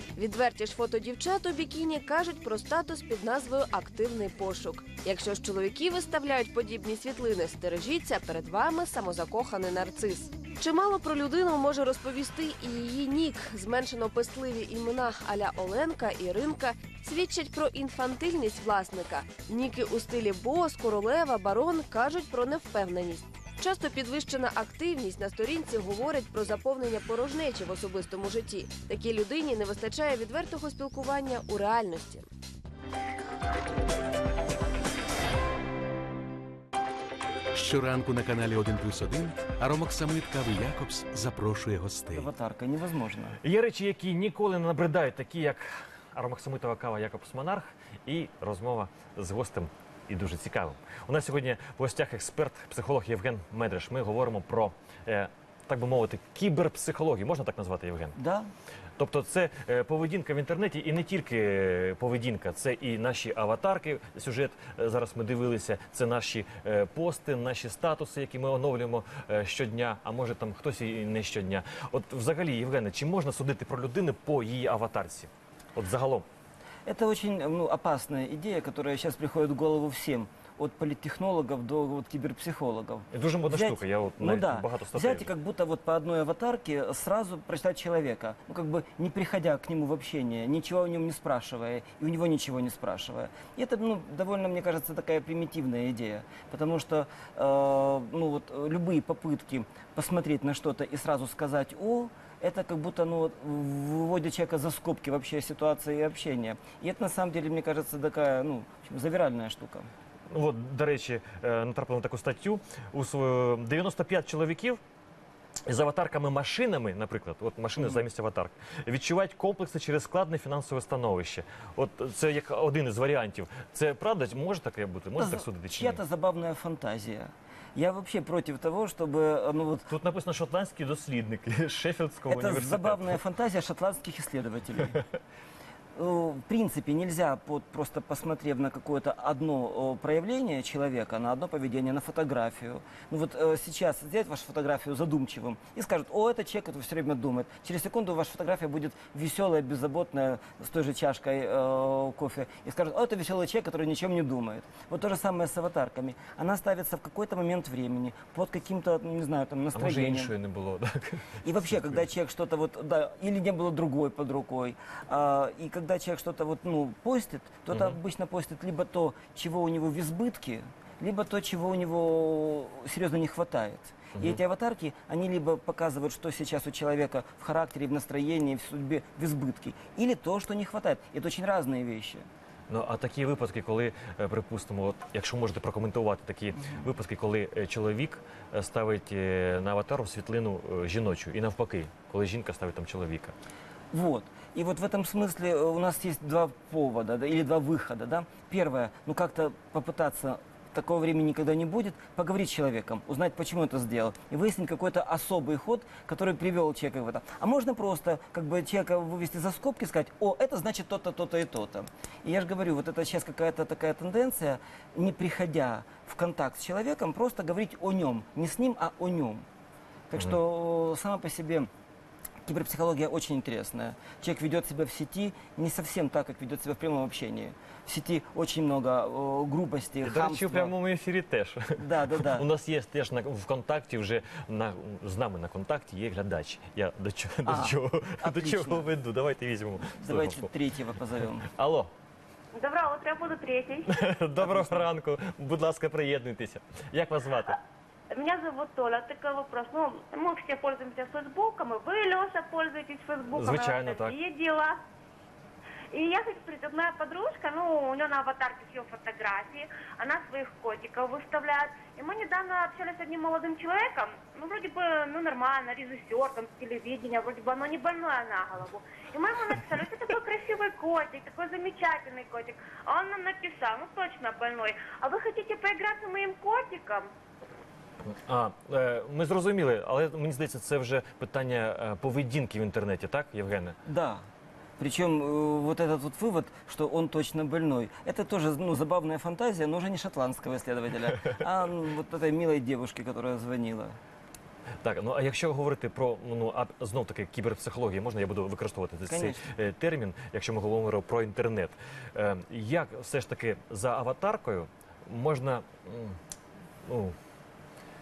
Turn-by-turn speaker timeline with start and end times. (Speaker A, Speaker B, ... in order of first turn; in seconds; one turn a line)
Speaker A: 0.1-32.3
Speaker B: 37.5-42.3
Speaker C: 42.1-43.4
Speaker D: 43.4-58.1
Speaker C: 58.1-58.5
Speaker D: 59.0-76.2
Speaker C: 76.8-109.9
Speaker D: 83.1-85.3
Speaker D: 110.3-114.8
Speaker D: 115.7-126.0
Speaker C: 117.8-118.0
Speaker C: 125.2-129.9
Speaker D: 129.9-133.2
Speaker C: 132.3-135.0
Speaker C: 135.9-160.3
Speaker D: 159.7-161.8
Speaker C: 161.4-182.3
Speaker D: 167.7-168.0
Speaker D: 182.7-193.3
Speaker C: 193.9-219.4
Speaker C: 220.1-221.7
Speaker C: 222.4-230.7
Speaker D: 230.0-240.5
Speaker C: 231.8-232.4
Speaker C: 237.4-238.9
Speaker C: 240.0-241.4
Speaker D: 241.5-241.9
Speaker E: 242.5-244.0
Speaker D: 243.9-247.6
Speaker C: 244.4-244.8
Speaker E: 248.1-254.8
Speaker D: 253.3-254.2
Speaker E: 255.9-277.1
Speaker D: 278.1-283.8
Speaker C: 283.9-284.2
Speaker C: 284.8-294.0
Speaker D: 294.8-306.2
Speaker C: 299.1-299.4
Speaker D: 306.9-307.1